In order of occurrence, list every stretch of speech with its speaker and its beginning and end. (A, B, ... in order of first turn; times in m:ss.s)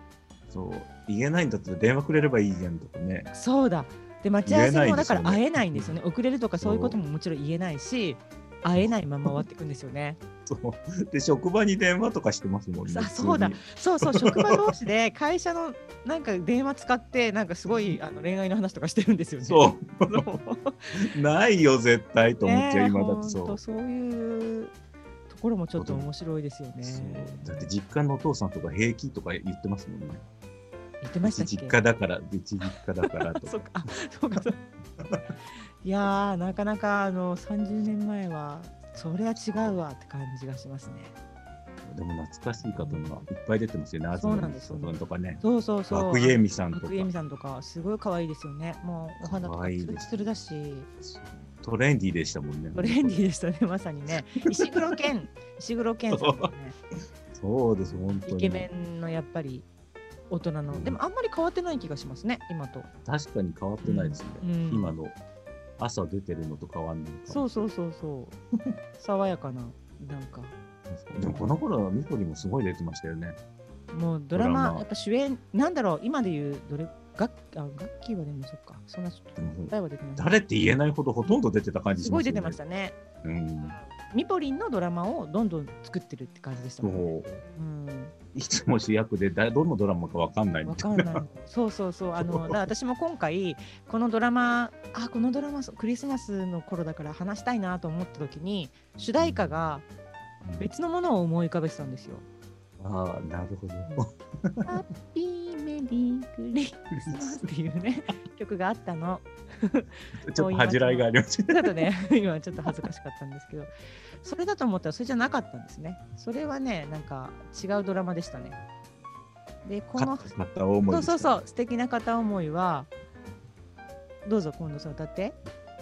0:00.5-0:03.3 A
0:03.3-0:10.2 B
0:04.5-0:05.9 A
0:06.6-0:07.0 A
0:08.8-0:09.4 A
0:10.5-0:14.6 A
0:12.9-0:20.9 B
0:19.4-0:20.3 A
0:21.0-0:23.6 A
0:22.4-0:24.7 B
0:25.3-0:27.7 B
0:25.8-0:26.1 A
0:26.8-0:30.2 A
0:31.0-0:31.8 B
0:31.2-0:33.7 A
0:32.6-0:34.6 B
0:35.8-0:41.1 B
0:39.5-0:39.8 A
0:41.9-0:47.1 A
0:42.7-0:43.2 B
0:44.2-0:50.9 B
0:49.2-0:50.0 A
0:51.0-0:53.2 A
0:52.8-0:56.8 B
0:56.1-0:56.5 A
0:57.3-0:58.7 A
0:58.2-0:59.7 B
1:00.3-1:02.9 B
1:00.7-1:01.0 A
1:03.1-1:05.2 A
1:03.8-1:04.9 B
1:05.8-1:07.4 A
1:07.3-1:08.4 B
1:09.0-1:10.6 B
1:10.9-1:13.4 A
1:13.9-1:20.3 B
1:14.3-1:14.9 A
1:19.4-1:22.6 A
1:22.0-1:23.0 B
1:23.2-1:23.8 A
1:23.7-1:28.1 B
1:26.8-1:27.4 A
1:28.4-1:31.2 A
1:30.7-1:39.9 B
1:32.2-1:32.6 A
1:39.2-1:39.5 A
1:40.6-1:42.2 B
1:42.8-1:44.7 A
1:44.7-1:53.7 B
1:47.0-1:47.4 A
1:50.3-1:51.7 A
1:54.2-1:58.6 B
1:59.6-2:00.3 B
2:00.0-2:01.3 A
2:00.9-2:02.9 B
2:04.2-2:05.4 B